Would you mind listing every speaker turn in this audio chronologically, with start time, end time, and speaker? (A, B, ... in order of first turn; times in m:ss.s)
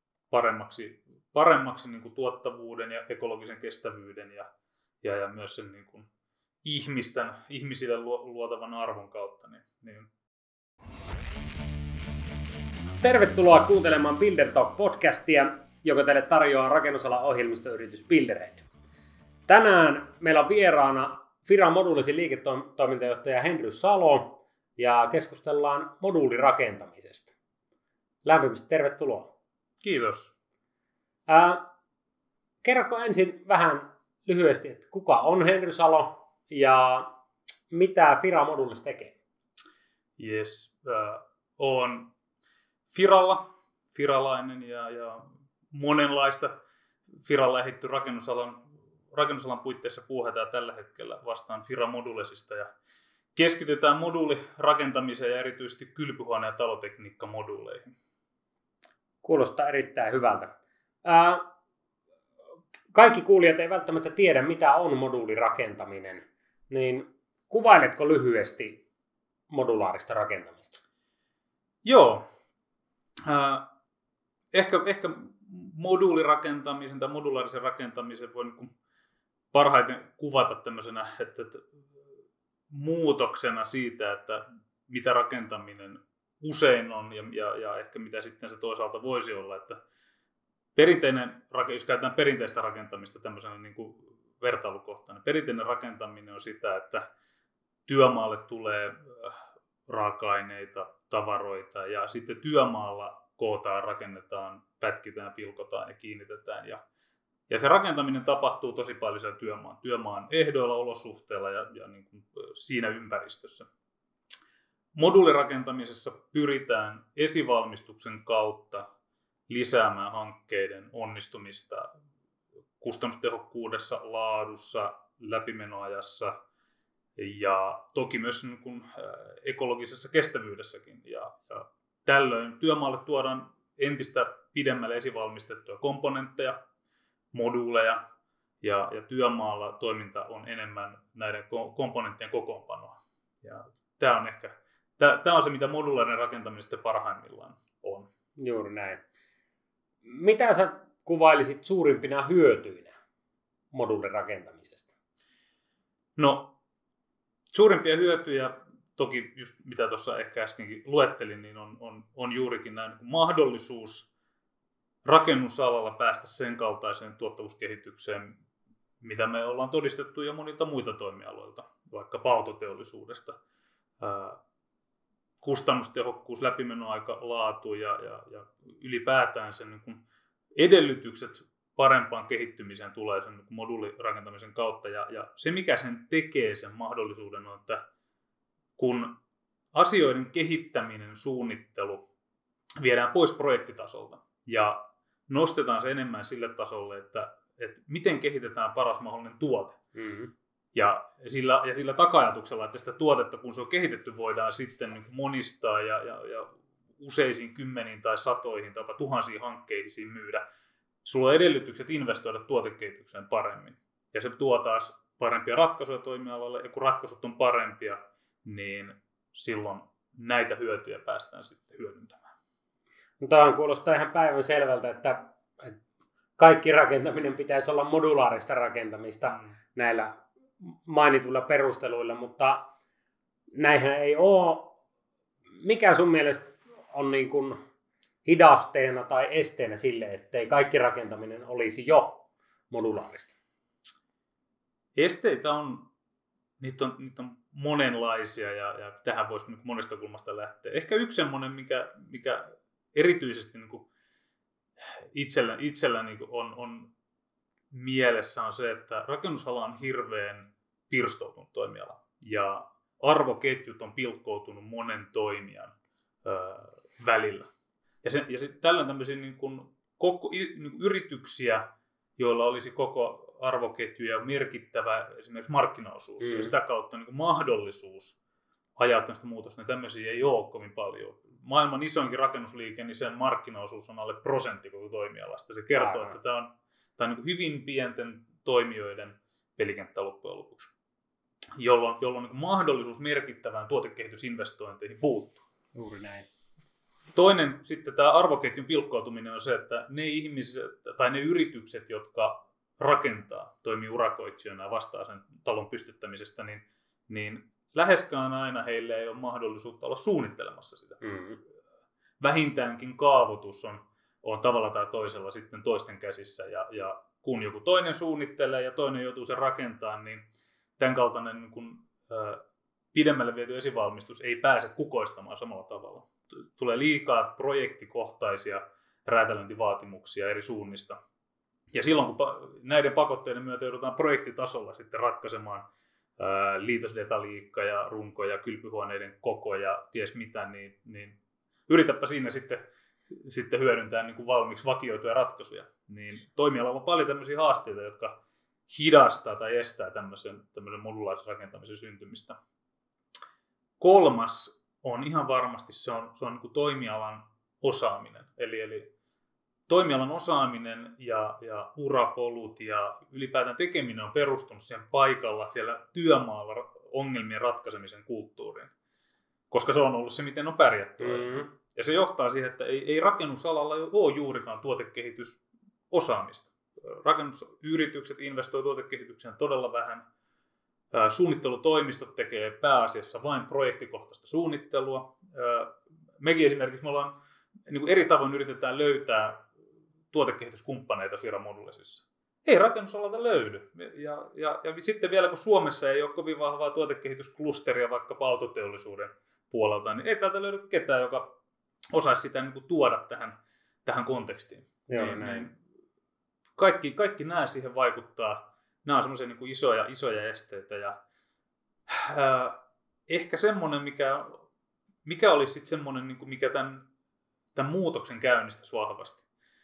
0:00.3-0:04.5 A
0:05.0-0:06.1 A
0:06.6-0:10.1 A
0:13.0-0:18.6 B
0:19.5-0:27.3 B
0:28.2-0:29.3 B
0:29.8-0:30.3 A
0:31.3-0:31.6 B
0:32.6-0:37.1 B
0:37.7-0:39.1 B
0:40.2-0:42.1 A
0:42.9-0:46.5 A
0:47.2-0:52.7 A
0:53.3-0:57.9 A
0:59.2-1:01.4 B
1:02.9-1:08.8 B
1:09.5-1:10.8 B
1:11.8-1:12.2 A
1:13.2-1:13.7 A
1:14.5-1:18.7 A
1:19.5-1:21.6 A
1:22.7-1:29.8 A
1:30.7-1:37.0 A
1:37.9-1:46.8 A
1:47.5-1:53.7 A
1:54.9-1:58.8 A
1:59.5-2:01.9 A
2:02.8-2:06.3 A
2:07.2-2:16.5 A
2:17.3-2:18.0 A
2:18.6-2:28.1 A
2:28.4-2:29.0 B
2:30.0-2:32.9 B
2:33.7-2:34.9 B
2:36.2-2:36.5 A
2:37.5-2:44.1 A
2:45.0-2:48.4 A
2:49.0-2:53.4 A
2:54.0-2:54.4 A
2:55.4-3:00.0 A
3:00.6-3:07.8 A
3:08.8-3:09.1 A
3:09.7-3:12.0 A
3:12.8-3:19.8 A
3:19.9-3:20.3 B
3:20.7-3:30.4 A
3:31.0-3:42.3 A
3:43.2-3:45.8 B
3:46.4-3:52.7 B
3:53.6-3:54.8 B
3:55.6-3:57.6 B
3:58.2-4:03.4 B
4:05.0-4:05.9 A
4:06.6-4:13.9 A
4:15.1-4:16.9 A
4:17.7-4:27.5 A
4:28.0-4:31.6 A
4:32.2-4:38.2 A
4:36.2-4:36.5 B
4:38.8-4:50.7 A
4:45.8-4:46.2 B
4:51.6-4:55.4 A
4:55.7-4:56.2 B
4:57.1-5:11.0 A
5:11.0-5:11.4 B
5:12.2-5:20.2 A
5:20.8-5:22.4 A
5:22.9-5:31.0 A
5:31.7-5:35.6 A
5:36.2-5:41.2 A
5:41.7-5:48.1 A
5:48.7-5:52.4 A
5:53.8-5:58.9 A
5:59.7-6:08.7 A
6:09.5-6:20.0 A
6:11.0-6:11.5 B
6:20.9-6:27.1 A
6:27.7-6:29.4 A
6:30.1-6:41.3 A
6:41.9-6:45.6 A
6:44.9-6:45.5 B
6:46.6-6:51.0 A
6:51.9-6:54.4 A
6:55.0-6:56.8 A
6:57.5-6:59.2 A